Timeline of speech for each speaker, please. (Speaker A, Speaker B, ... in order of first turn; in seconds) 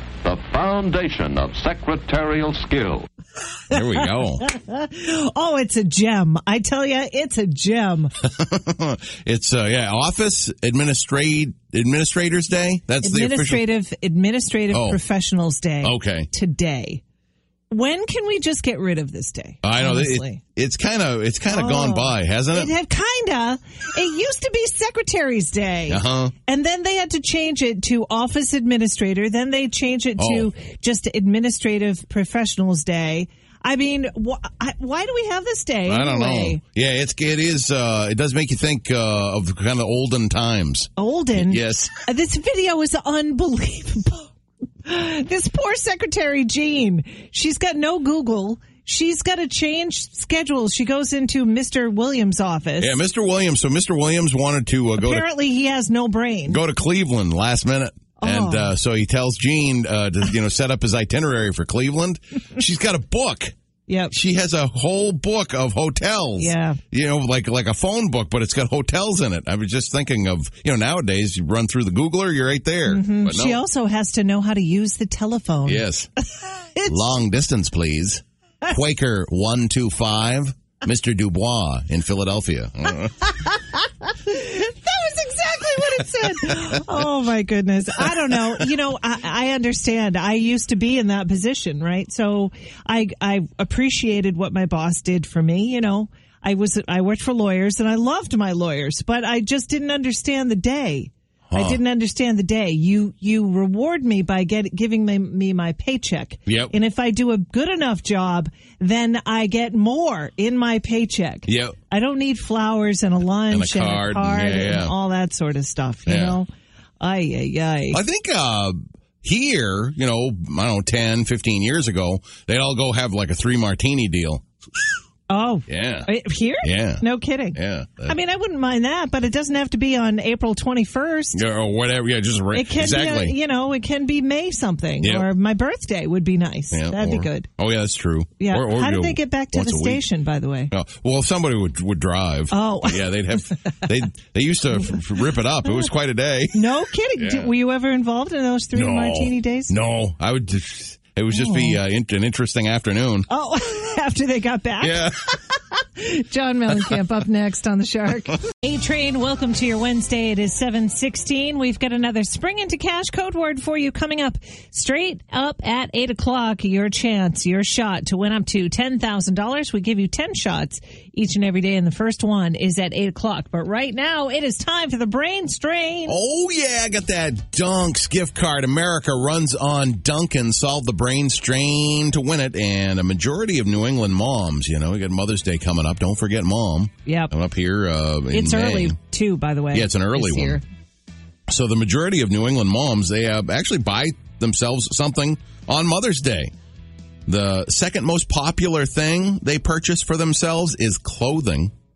Speaker A: 0.2-3.1
Speaker B: 3.7-4.5, 8.2-13.6, 14.7-15.0, 15.8-16.3, 19.6-22.7, 25.9-26.3, 30.2-30.5, 35.9-42.0, 52.8-55.2, 56.5-63.5, 64.1-73.6, 75.7-76.1, 76.8-83.3, 101.5-101.8, 106.5-106.7, 111.5-111.7, 113.5-114.9, 116.0-116.4, 117.9-124.8, 125.7-126.1, 126.6-127.0, 127.5-128.2, 131.3-133.4, 135.0-135.3, 136.7-140.0, 140.7-146.6, 147.2-147.5, 148.7-153.3, 154.8-155.2, 176.1-188.9, 189.7-190.6, 191.5-196.5, 197.3-201.7
Speaker C: 3.7-8.1, 13.0-17.0, 17.7-20.4, 21.5-36.6, 41.0-44.3, 44.8-53.0, 55.0-56.6, 58.2-58.7, 63.9-64.1, 66.4-66.8, 72.9-75.8, 76.4-77.0, 84.1-116.5, 117.0-118.0, 125.3-131.4, 132.5-137.5, 138.4-140.7, 142.5-143.2, 146.5-149.7, 151.3-151.8, 153.3-155.0, 155.9-176.1, 187.1-187.3, 188.3-190.6